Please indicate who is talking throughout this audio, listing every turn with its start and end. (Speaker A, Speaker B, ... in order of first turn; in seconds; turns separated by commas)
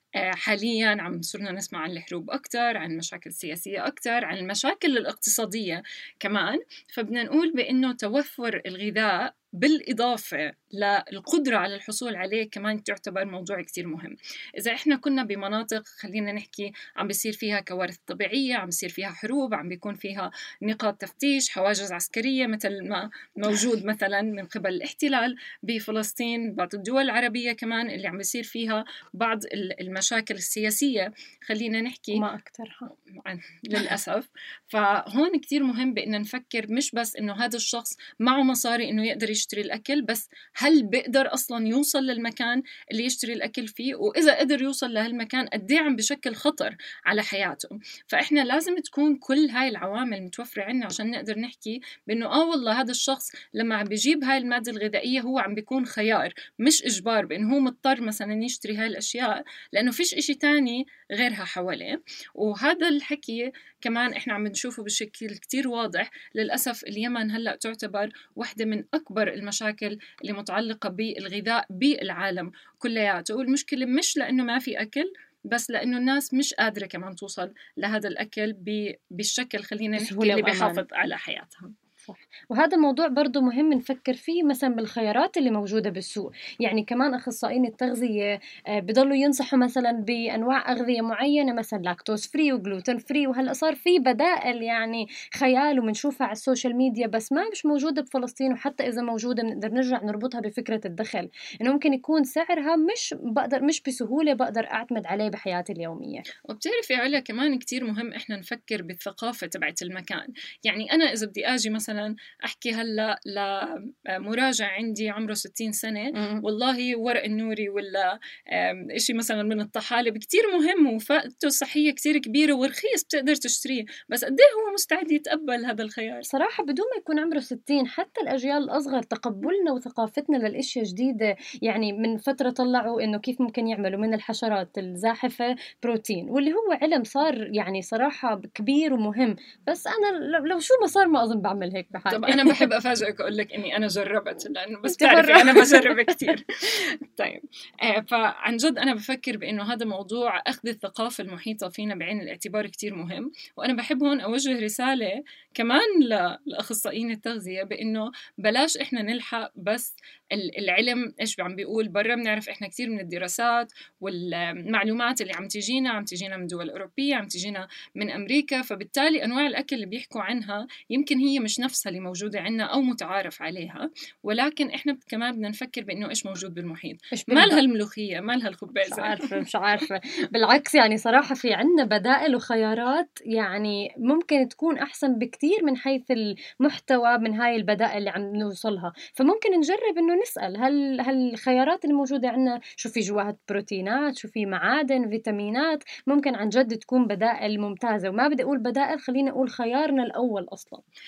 Speaker A: 0.2-32.2, Speaker B: 32.1-32.9, Speaker A: 33.2-81.7, Speaker B: 80.0-80.8, Speaker B: 82.1-88.3, Speaker B: 88.8-106.2, Speaker A: 106.5-126.2, Speaker B: 116.2-116.4, Speaker B: 126.2-142.6, Speaker A: 142.1-179.3, Speaker B: 144.9-146.3, Speaker B: 177.1-177.6, Speaker B: 178.8-200.8